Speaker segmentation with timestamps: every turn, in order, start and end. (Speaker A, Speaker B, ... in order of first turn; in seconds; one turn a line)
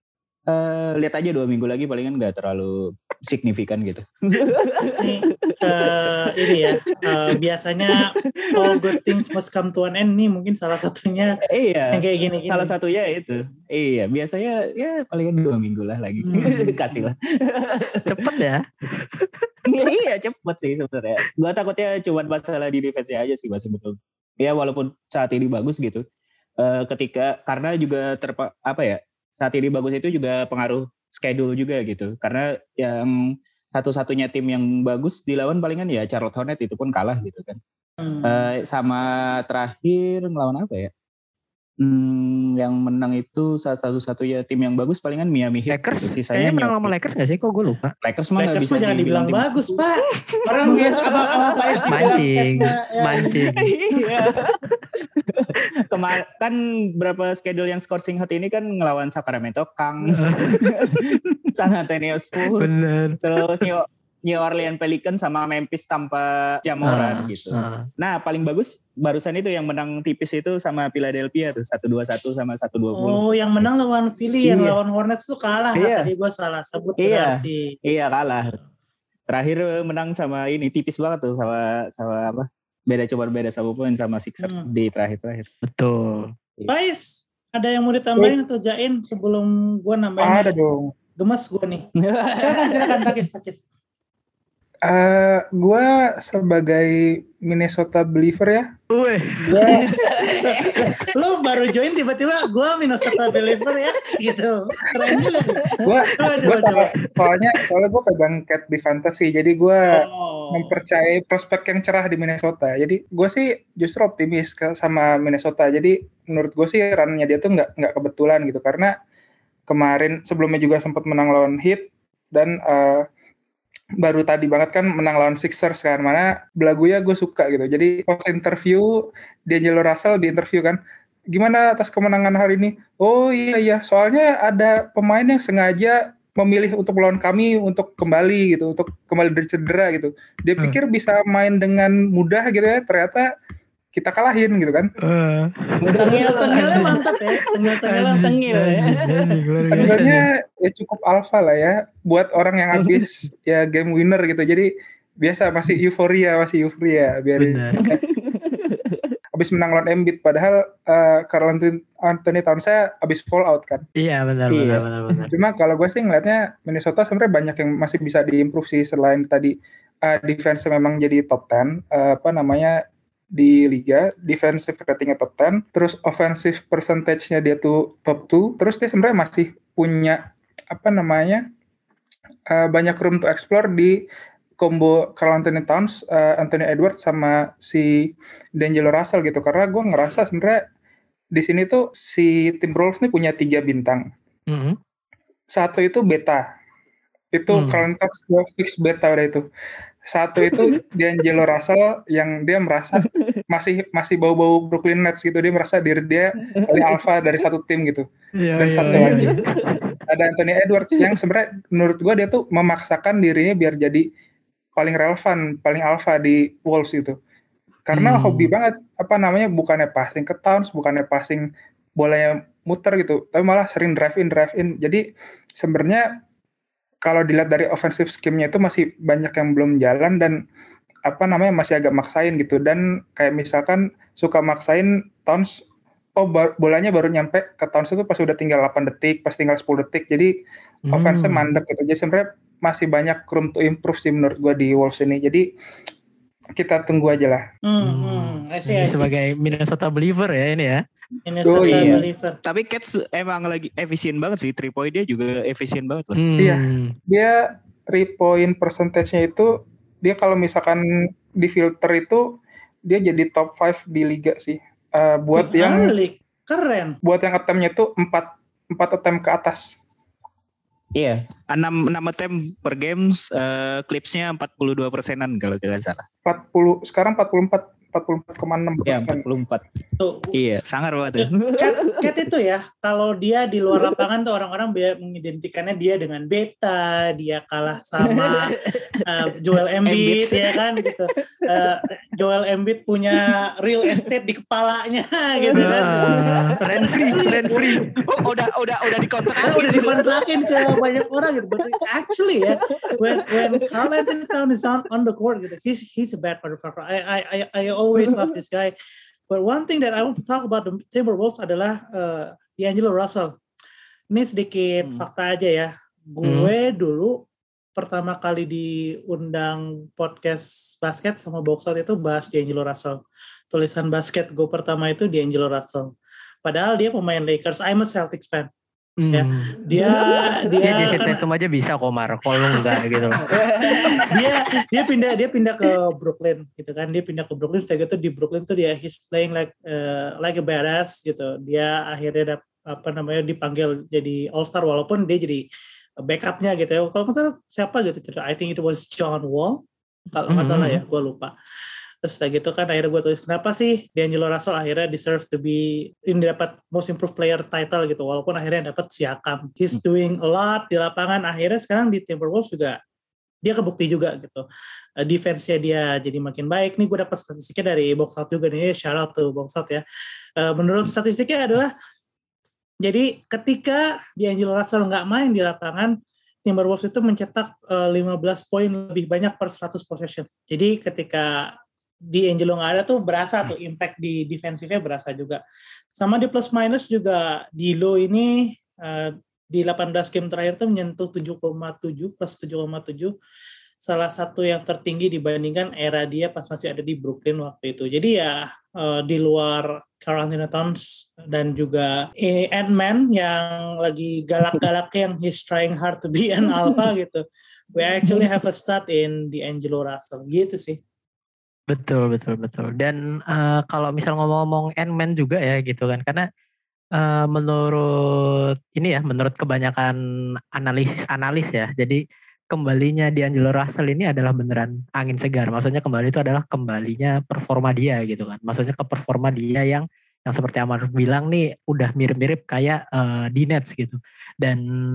Speaker A: 0.5-5.9
Speaker B: 5.0-11.3
Speaker A: 8.4-9.0
Speaker A: 11.5-18.3
Speaker B: 11.9-12.7
Speaker B: 16.2-17.0
Speaker C: 18.1-19.5
Speaker A: 19.7-26.0
Speaker A: 26.6-37.6
Speaker B: 38.0-38.5
Speaker A: 38.2-40.9
Speaker A: 41.8-46.9
Speaker C: 45.7-47.9
Speaker A: 48.0-49.8
Speaker B: 48.4-53.4
Speaker A: 50.6-54.6
Speaker C: 51.9-53.7
Speaker A: 55.2-73.7
Speaker C: 60.1-61.4
Speaker C: 62.5-63.7
Speaker C: 66.8-67.9
Speaker B: 72.9-77.8
Speaker A: 74.4-74.8
Speaker A: 75.8-76.1
Speaker A: 77.0-78.6
Speaker A: 79.3-85.5
Speaker B: 84.4-84.7
Speaker C: 85.7-86.3
Speaker B: 86.7-90.5
Speaker D: 90.2-90.9
Speaker B: 91.2-91.8
Speaker A: 92.0-93.2
Speaker B: 92.4-93.6
Speaker D: 94.9-98.7
Speaker C: 98.9-99.8
Speaker D: 99.4-99.9
Speaker A: 99.6-101.1
Speaker B: 100.2-105.7
Speaker A: 103.1-103.6
Speaker A: 105.0-106.4
Speaker D: 105.8-118.9
Speaker B: 106.2-106.9
Speaker B: 109.9-110.8
Speaker D: 119.7-123.1
Speaker D: 124.0-130.8
Speaker D: 131.3-143.3
Speaker D: 143.9-144.9
Speaker C: 145.0-147.0
Speaker A: 145.8-147.1
Speaker B: 146.0-148.3
Speaker A: 147.7-150.0
Speaker C: 147.9-150.2
Speaker D: 149.7-154.7
Speaker A: 152.8-153.0
Speaker D: 155.2-158.0
Speaker C: 157.4-157.8
Speaker A: 157.8-159.1
Speaker D: 159.3-163.8
Speaker C: 164.0-165.3
Speaker A: 164.5-165.2
Speaker D: 165.3-172.8
Speaker D: 173.3-181.5
Speaker D: 182.5-184.1
Speaker D: 184.6-190.6
Speaker D: 191.3-194.1
Speaker C: 194.5-194.8
Speaker D: 195.5-196.5
Speaker D: 197.3-199.5
Speaker C: 197.5-197.8
Speaker D: 200.1-208.1
Speaker A: 203.1-203.4
Speaker A: 206.5-207.0
Speaker C: 208.4-209.4
Speaker D: 208.6-209.4
Speaker A: 208.9-209.9
Speaker D: 210.1-214.1
Speaker D: 214.8-217.2
Speaker D: 217.9-221.5
Speaker C: 217.9-218.5
Speaker D: 222.0-225.0
Speaker D: 225.6-226.1
Speaker D: 227.0-230.4
Speaker D: 231.1-235.6
Speaker D: 236.2-240.3
Speaker C: 240.9-241.5
Speaker D: 240.9-245.5
Speaker D: 246.6-247.4
Speaker B: 247.7-249.1
Speaker C: 247.8-250.8
Speaker B: 251.3-252.4
Speaker D: 251.4-252.0
Speaker A: 251.6-256.2
Speaker C: 256.2-256.9
Speaker D: 256.4-259.5
Speaker D: 260.0-265.9
Speaker B: 265.4-267.0
Speaker D: 267.0-269.7
Speaker A: 271.0-276.0
Speaker D: 276.3-279.2
Speaker A: 278.9-279.6
Speaker B: 280.0-280.3
Speaker A: 280.3-281.7
Speaker B: 281.2-288.5
Speaker A: 288.0-289.0
Speaker B: 289.1-297.9
Speaker A: 289.9-290.9
Speaker A: 295.5-297.3
Speaker C: 295.6-297.8
Speaker A: 298.0-300.8
Speaker B: 299.4-308.7
Speaker A: 302.7-304.1
Speaker A: 308.0-308.3
Speaker B: 309.3-313.3
Speaker B: 314.1-317.2
Speaker C: 316.2-316.5
Speaker B: 317.8-323.0
Speaker B: 323.5-325.9
Speaker B: 326.4-328.5
Speaker C: 329.0-329.6
Speaker B: 329.1-331.2
Speaker A: 329.8-331.0
Speaker C: 330.6-333.2
Speaker B: 332.5-333.0
Speaker A: 333.3-334.3
Speaker B: 333.7-345.4
Speaker B: 346.0-349.6
Speaker B: 350.1-351.3
Speaker C: 350.3-350.8
Speaker B: 352.1-362.8
Speaker B: 363.4-364.4
Speaker B: 365.0-369.8
Speaker B: 370.4-371.7
Speaker B: 372.8-375.9
Speaker B: 376.5-381.5
Speaker B: 382.1-385.4
Speaker B: 386.0-393.1
Speaker B: 393.9-407.2
Speaker B: 407.8-410.8
Speaker A: 408.1-408.3
Speaker C: 411.7-416.3
Speaker C: 417.0-420.0
Speaker C: 420.6-422.0
Speaker C: 422.5-434.6